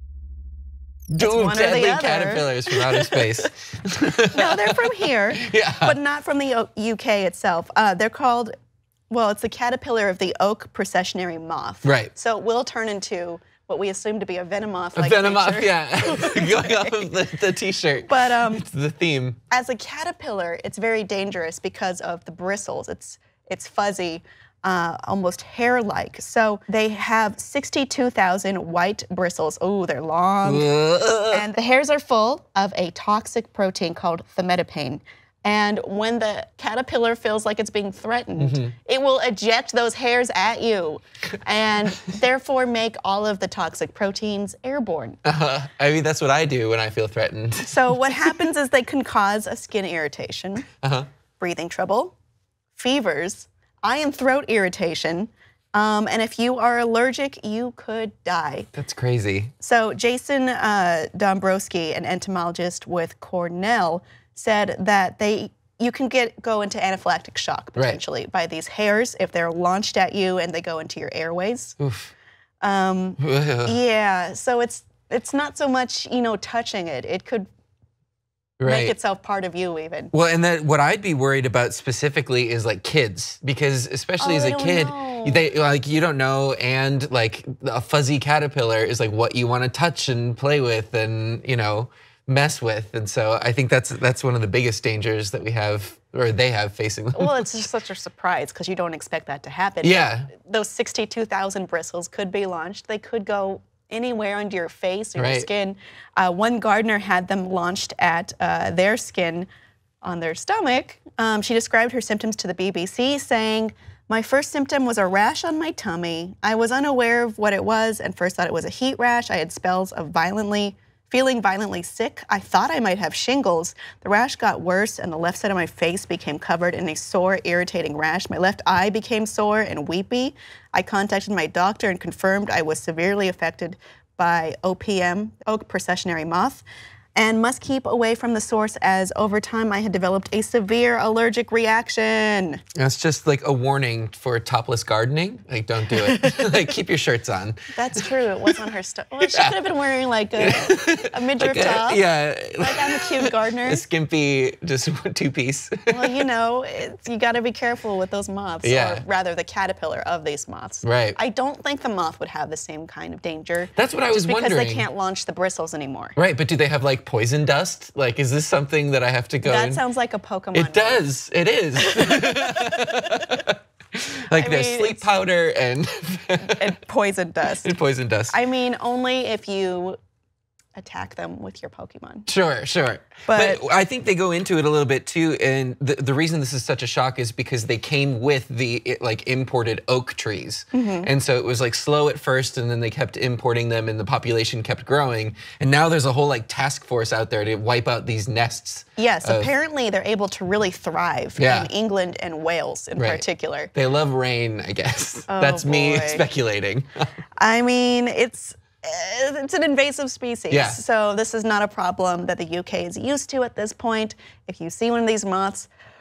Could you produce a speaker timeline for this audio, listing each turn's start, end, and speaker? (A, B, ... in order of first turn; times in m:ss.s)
0:01.1-0:06.0 A
0:01.2-0:03.4 B
0:04.1-0:08.5 B
0:09.1-0:17.1 B
0:11.8-0:12.1 A
0:15.0-0:19.4 A
0:18.0-0:18.6 B
0:19.5-0:30.7 B
0:30.4-0:31.4 A
0:31.3-0:45.2 B
0:38.4-0:38.7 A
0:45.2-0:48.3 A
0:47.7-0:50.7 B
0:50.8-0:51.1 A
0:51.4-0:52.1 B
0:52.7-0:58.7 B
0:58.7-0:59.5 A
0:59.6-1:11.8 B
1:11.8-1:12.1 A
1:12.6-1:17.5 B
1:13.2-1:13.8 A
1:18.6-1:18.9 A
1:18.6-1:20.1 B
1:20.1-1:37.5 A
1:24.2-1:25.5 B
1:37.1-1:49.5 B
1:39.8-1:40.3 A
1:45.2-1:45.5 A
1:50.0-2:16.6 B
2:17.2-2:22.6 B
2:22.8-2:28.0 A
2:26.0-2:26.5 B
2:27.7-2:32.0 B
2:29.3-2:29.7 A
2:30.4-2:36.2 A
2:32.6-2:33.8 B
2:35.9-2:46.2 B
2:38.6-2:39.0 A
2:40.8-2:41.2 A
2:43.8-2:44.8 A
2:46.2-2:49.8 A
2:49.4-2:51.0 B
2:50.5-2:56.7 A
2:51.8-2:53.3 B
2:54.3-2:55.0 B
2:56.4-2:57.7 B
2:57.6-2:58.4 A
2:58.3-3:00.0 B
3:00.8-3:02.3 B
3:02.3-3:19.5 A
3:03.2-3:03.6 B
3:10.7-3:11.1 B
3:19.0-3:23.7 B
3:21.4-3:21.7 A
3:23.0-3:26.9 A
3:25.3-3:26.2 B
3:27.4-3:35.7 B
3:30.5-3:30.8 A